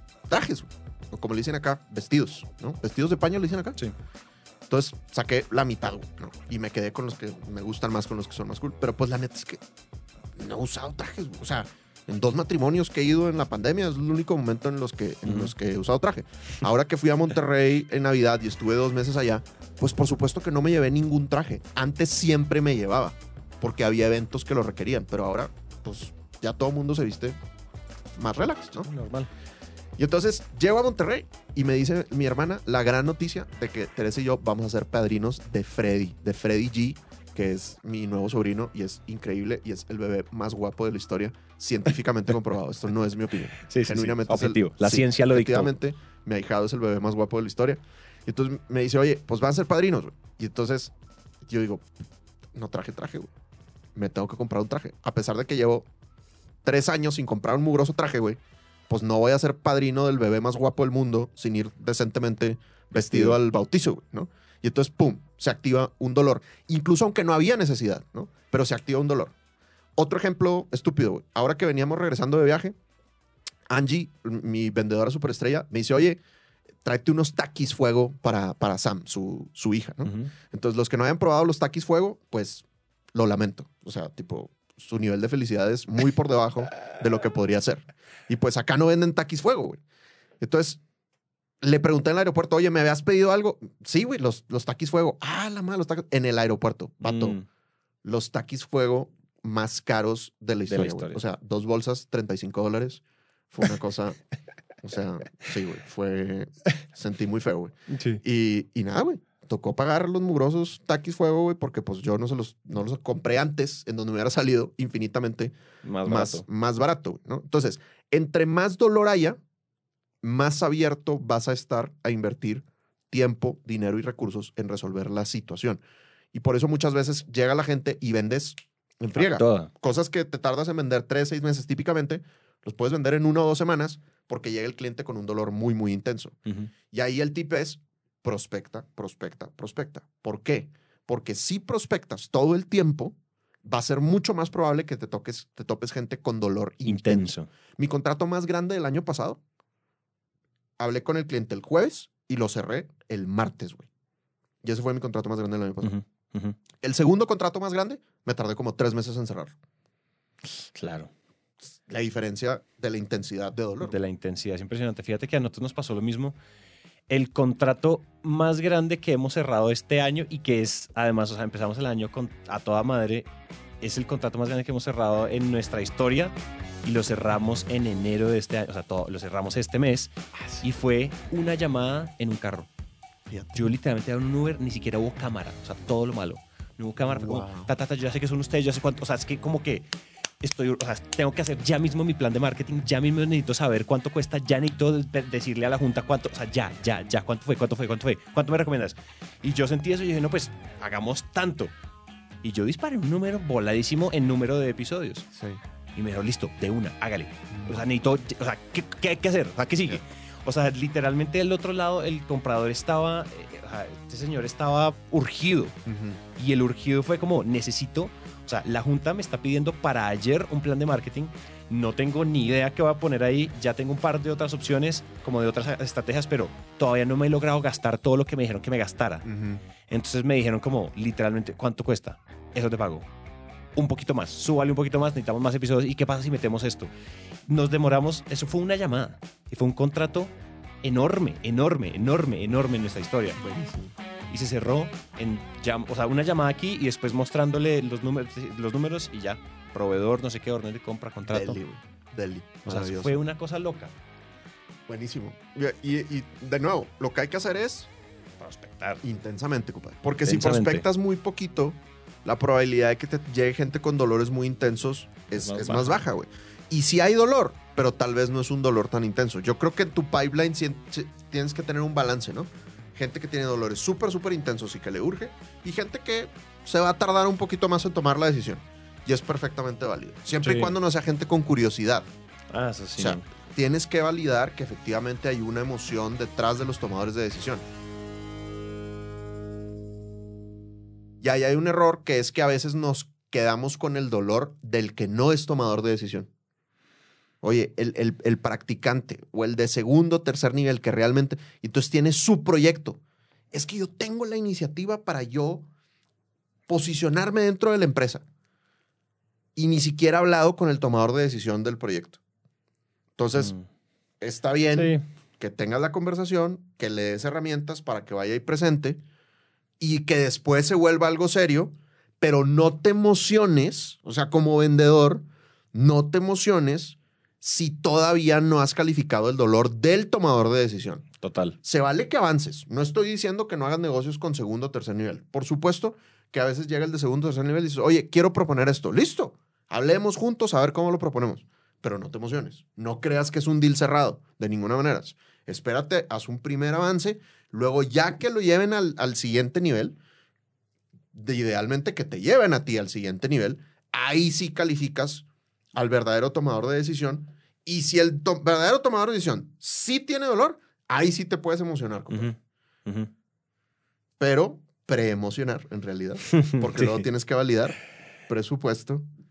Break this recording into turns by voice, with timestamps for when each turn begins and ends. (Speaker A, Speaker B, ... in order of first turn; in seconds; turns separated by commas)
Speaker A: 0.3-3.8, Speaker A: 4.7-9.6, Speaker A: 10.3-27.4, Speaker B: 15.2-15.5, Speaker A: 28.1-28.9, Speaker B: 28.6-29.3, Speaker A: 30.0-51.9, Speaker B: 43.6-45.7, Speaker A: 52.5-53.3, Speaker A: 53.9-55.9, Speaker A: 56.6-69.3, Speaker B: 62.9-63.4, Speaker A: 70.0-72.8, Speaker A: 73.7-76.2, Speaker A: 76.8-89.8, Speaker B: 80.0-80.3, Speaker A: 90.4-90.8, Speaker A: 91.6-97.4, Speaker B: 97.0-97.5, Speaker A: 98.0-104.2, Speaker B: 100.7-101.2, Speaker A: 104.8-119.4, Speaker B: 107.9-108.2, Speaker B: 115.8-116.4, Speaker A: 120.2-136.4, Speaker B: 129.1-129.7, Speaker B: 136.4-136.7, Speaker A: 136.9-149.4, Speaker B: 146.8-147.5, Speaker A: 150.8-153.9, Speaker A: 154.6-155.9, Speaker B: 155.8-156.6, Speaker A: 156.8-159.6, Speaker B: 160.7-161.1, Speaker A: 161.8-164.0, Speaker B: 163.8-166.3, Speaker B: 167.1-173.3, Speaker B: 173.8-182.7, Speaker A: 183.3-183.5, Speaker B: 183.5-189.9, Speaker A: 187.0-187.7, Speaker B: 190.4-201.7, Speaker B: 202.4-205.3, Speaker A: 205.3-205.6, Speaker B: 205.9-215.8, Speaker A: 207.5-207.8, Speaker A: 215.8-216.2, Speaker B: 216.3-229.3, Speaker A: 229.2-229.6, Speaker B: 229.9-233.1, Speaker B: 233.8-236.9, Speaker B: 237.5-240.3, Speaker B: 240.8-243.4, Speaker A: 243.4-243.9, Speaker B: 244.3-251.6, Speaker A: 251.3-253.2, Speaker B: 252.7-253.9, Speaker A: 254.9-257.9, Speaker B: 258.4-259.0, Speaker A: 259.0-282.1, Speaker B: 260.2-260.9, Speaker B: 265.3-266.0, Speaker B: 280.4-280.7, Speaker B: 282.5-283.2, Speaker A: 283.0-287.6, Speaker A: 291.2-296.3, Speaker A: 297.4-303.0, Speaker A: 303.5-305.7, Speaker A: 306.7-308.2, Speaker A: 309.5-312.2, Speaker A: 313.2-313.5, Speaker B: 313.4-313.6, Speaker A: 314.2-319.0, Speaker B: 314.7-315.0, Speaker A: 319.8-331.1, Speaker B: 331.2-331.6, Speaker A: 331.6-350.0, Speaker A: 351.1-362.3, Speaker B: 362.1-363.1, Speaker A: 364.2-367.8, Speaker B: 366.3-367.1, Speaker A: 368.3-369.1